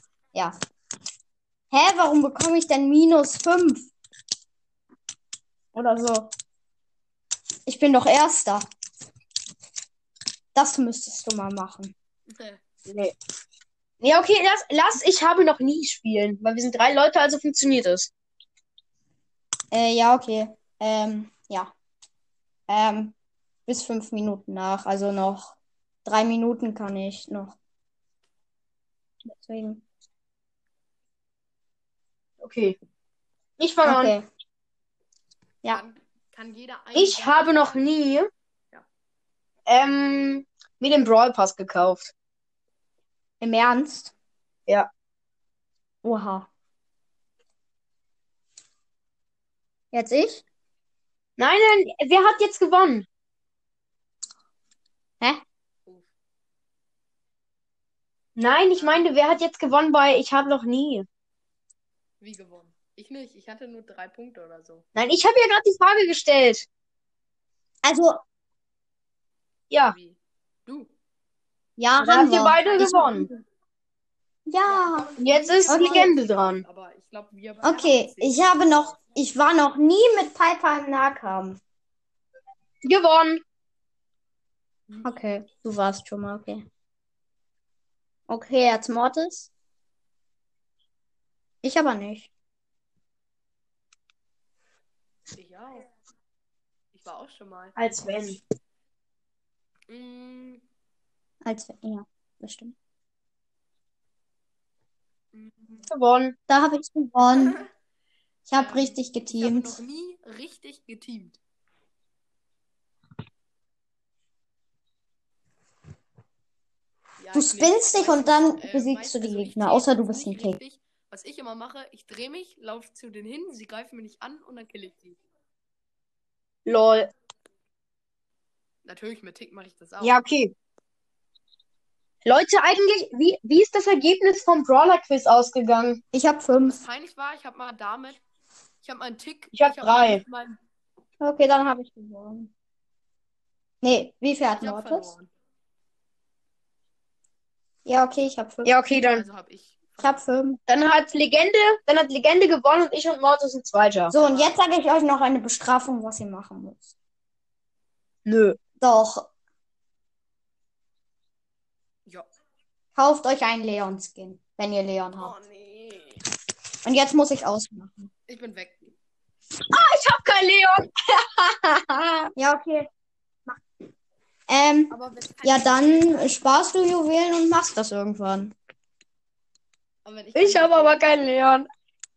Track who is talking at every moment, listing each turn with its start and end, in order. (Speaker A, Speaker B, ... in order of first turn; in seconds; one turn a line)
Speaker A: 1.7-3.9
Speaker A: 5.7-6.3
Speaker A: 7.7-8.7
Speaker A: 10.5-11.9
Speaker B: 12.3-12.6
Speaker C: 12.8-13.1
Speaker C: 14.0-18.1
Speaker A: 19.7-21.7
Speaker A: 22.7-23.1
Speaker A: 23.7-25.5
Speaker A: 26.1-27.6
Speaker A: 29.2-29.8
Speaker C: 32.4-32.8
Speaker C: 33.6-34.1
Speaker A: 33.8-34.3
Speaker B: 35.7-38.1
Speaker C: 37.0-38.3
Speaker C: 39.7-42.1
Speaker A: 43.4-44.1
Speaker A: 46.0-46.5
Speaker A: 49.9-50.4
Speaker C: 51.4-53.1
Speaker C: 58.4-61.1
Speaker B: 58.7-59.1
Speaker B: 62.2-64.9
Speaker C: 65.0-66.7
Speaker A: 67.8-68.2
Speaker B: 69.8-70.9
Speaker A: 71.8-73.4
Speaker C: 72.0-73.3
Speaker A: 74.5-75.1
Speaker B: 74.7-79.0
Speaker C: 75.2-76.6
Speaker A: 75.7-76.1
Speaker A: 77.6-81.6
Speaker C: 82.8-83.4
Speaker A: 85.0-86.7
Speaker A: 88.3-89.5
Speaker A: 91.6-92.3
Speaker B: 95.3-95.9
Speaker B: 96.9-97.8
Speaker C: 97.8-98.4
Speaker B: 99.9-100.6
Speaker A: 101.4-102.8
Speaker B: 105.3-105.9
Speaker C: 105.9-106.4
Speaker A: 106.5-107.6
Speaker A: 108.5-109.8
Speaker B: 108.5-111.4
Speaker B: 117.2-125.2
Speaker A: 117.3-120.6
Speaker C: 126.7-127.1
Speaker B: 128.8-130.2
Speaker C: 130.0-130.5
Speaker C: 132.2-136.0
Speaker A: 136.1-136.8
Speaker B: 136.6-138.2
Speaker B: 138.8-140.6
Speaker C: 139.5-140.2
Speaker A: 141.2-142.5
Speaker A: 143.8-145.1
Speaker B: 144.6-145.3
Speaker A: 147.9-148.8
Speaker C: 148.7-149.2
Speaker B: 148.9-150.2
Speaker A: 150.0-150.6
Speaker C: 150.7-154.1
Speaker A: 154.1-156.9
Speaker B: 154.1-154.6
Speaker C: 158.3-158.6
Speaker A: 158.8-159.3
Speaker A: 162.9-165.4
Speaker B: 165.2-166.2
Speaker A: 166.8-168.1
Speaker B: 168.3-168.9
Speaker C: 169.7-172.3
Speaker A: 172.4-172.9
Speaker A: 174.5-178.6
Speaker B: 174.9-176.4
Speaker B: 180.1-181.1
Speaker C: 180.3-181.7